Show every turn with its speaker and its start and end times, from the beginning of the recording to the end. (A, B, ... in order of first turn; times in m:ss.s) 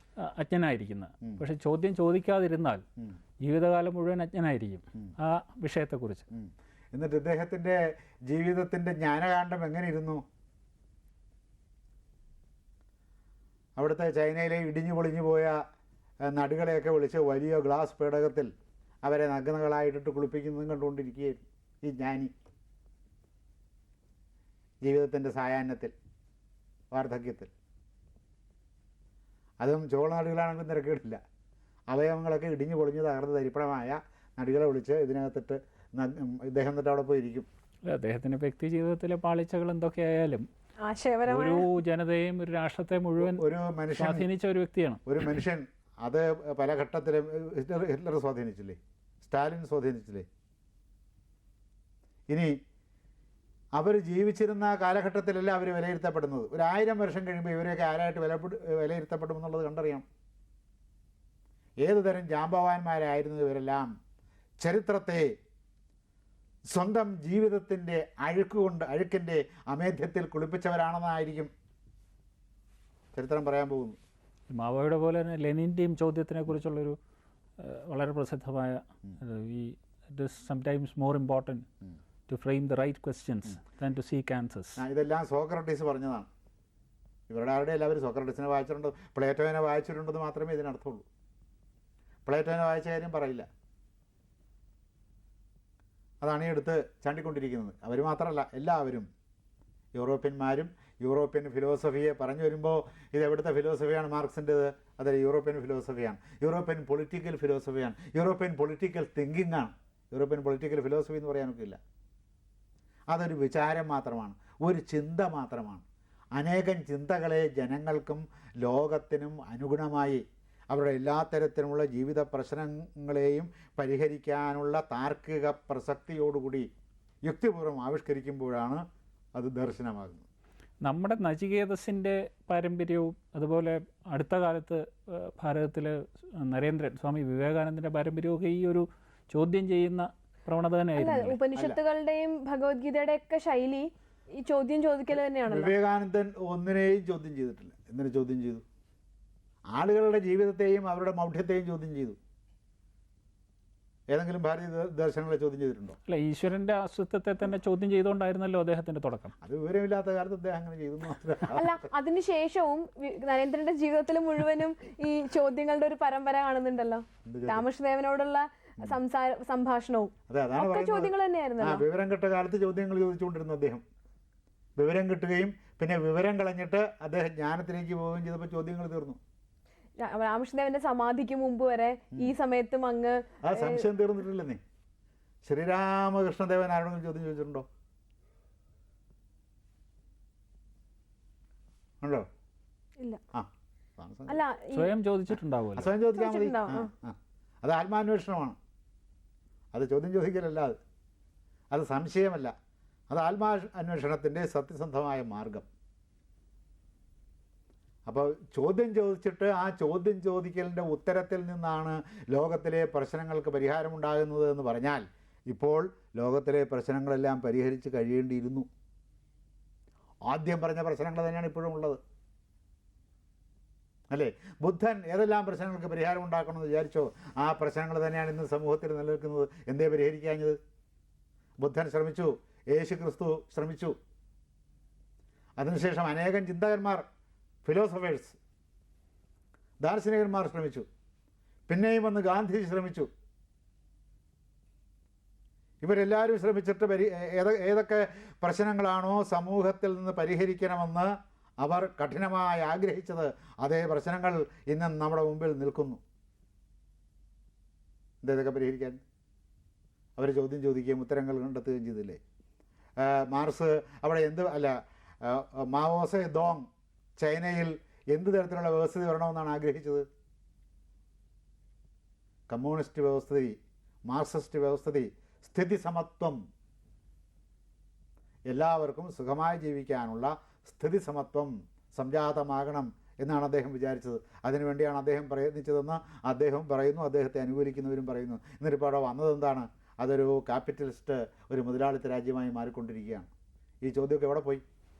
0:00.2-0:02.8 A
0:03.4-0:06.3 A
0:06.3-0:10.2 B
0:13.8-0:15.6 B
0:16.2-0:18.5 B
0:19.0-0:22.3 B
0:24.8-0:25.9 B
0:26.9-0:27.5 B
0:29.6-0:31.2 B
0:31.9-0:37.5 B
0:37.9-0:40.5 A
0:40.8-0:41.6 C
0:41.3-0:45.0 A
0:43.2-0:44.3 B
0:45.1-0:50.3 B
0:52.3-0:52.6 B
0:53.8-1:00.0 B
1:01.8-1:03.9 B
1:04.6-1:05.4 B
1:06.7-1:11.5 B
1:13.1-1:14.0 B
1:14.5-1:17.0 A
1:17.6-1:21.7 A
1:22.3-1:24.8 A
1:24.8-1:26.3 B
1:27.3-1:31.0 B
1:32.3-1:33.5 B
1:36.2-1:39.1 B
1:40.0-1:51.8 B
1:53.1-1:55.8 B
1:56.4-2:06.7 B
2:07.2-2:10.2 B
2:10.8-2:21.4 A
2:21.0-2:25.7 C
2:25.5-2:28.6 B
2:29.7-2:32.2 B
2:34.1-2:36.0 B
2:36.1-2:39.4 A
2:39.4-2:41.8 B
2:41.5-2:51.8 C
2:47.2-2:47.6 B
2:50.3-2:53.8 B
2:54.8-2:59.2 B
3:00.0-3:03.8 C
3:03.4-3:04.6 B
3:05.4-3:07.6 B
3:12.0-3:12.3 B
3:13.3-3:14.4 B
3:14.3-3:14.9 C
3:14.7-3:15.9 A
3:15.8-3:18.6 B
3:16.1-3:16.9 C
3:19.7-3:20.8 B
3:21.7-3:22.5 B
3:23.1-3:25.7 B
3:28.1-3:38.7 B
3:40.3-3:42.0 B
3:44.1-3:50.6 B
3:51.6-3:54.0 B
3:55.6-3:57.0 B
3:57.6-3:58.4 B
3:59.8-4:00.8 B
4:01.7-4:03.1 B
4:05.8-4:16.0 B
4:18.2-4:19.0 B
4:20.2-4:22.2 B
4:23.0-4:26.7 B
4:27.2-4:30.0 B
4:32.5-4:33.6 B
4:34.1-4:36.4 B
4:38.5-4:53.3 B
4:53.8-4:54.6 B